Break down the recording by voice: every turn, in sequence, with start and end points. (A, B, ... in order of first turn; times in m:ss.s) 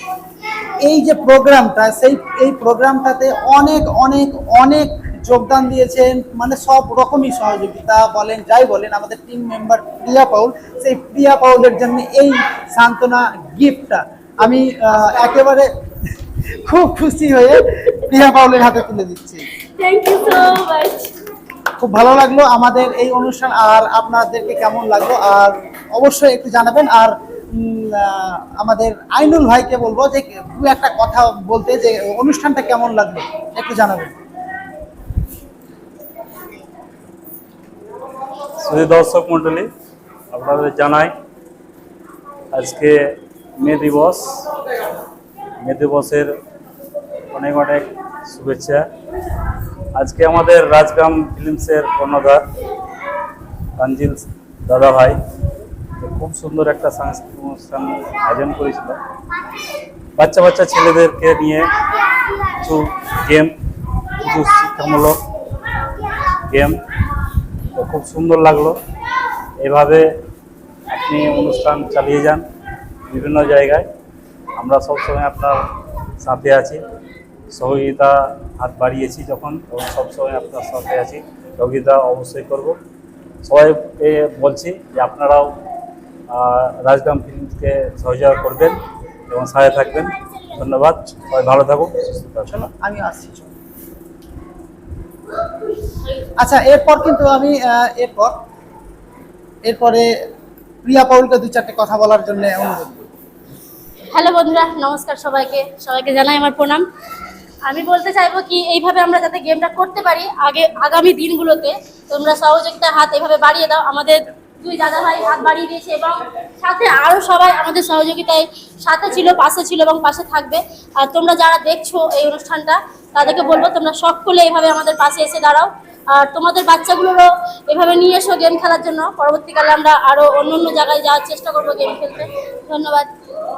0:00.8-0:15.7 A
0:16.6-0:19.4 A
0:19.8-0:21.1 B
0:21.8-0:34.1 A
0:38.6-0:39.7 C
0:40.3-0:41.1 C
0:42.5-0:43.0 C
0:43.6-0:44.4 C
0:45.6-0:46.3 C
0:47.3-0:48.8 C
0:50.0-0:52.4 C
0:53.8-0:55.2 C
0:56.0-0:59.0 C
1:00.2-1:01.7 C
1:02.6-1:03.5 C
1:04.2-1:05.2 C
1:06.5-1:06.8 C
1:07.7-1:08.8 C
1:09.6-1:10.0 C
1:10.9-1:12.4 C
1:13.1-1:13.8 C
1:14.6-1:15.6 C
1:16.2-1:16.8 C
1:17.5-1:22.8 C
1:23.4-1:25.5 C
1:26.3-1:28.8 C
1:29.3-1:32.5 C
1:32.5-1:33.5 A
1:36.4-1:38.3 A
1:39.6-1:40.1 A
1:40.8-1:43.1 A
1:44.1-1:46.8 B
1:47.6-2:13.1 B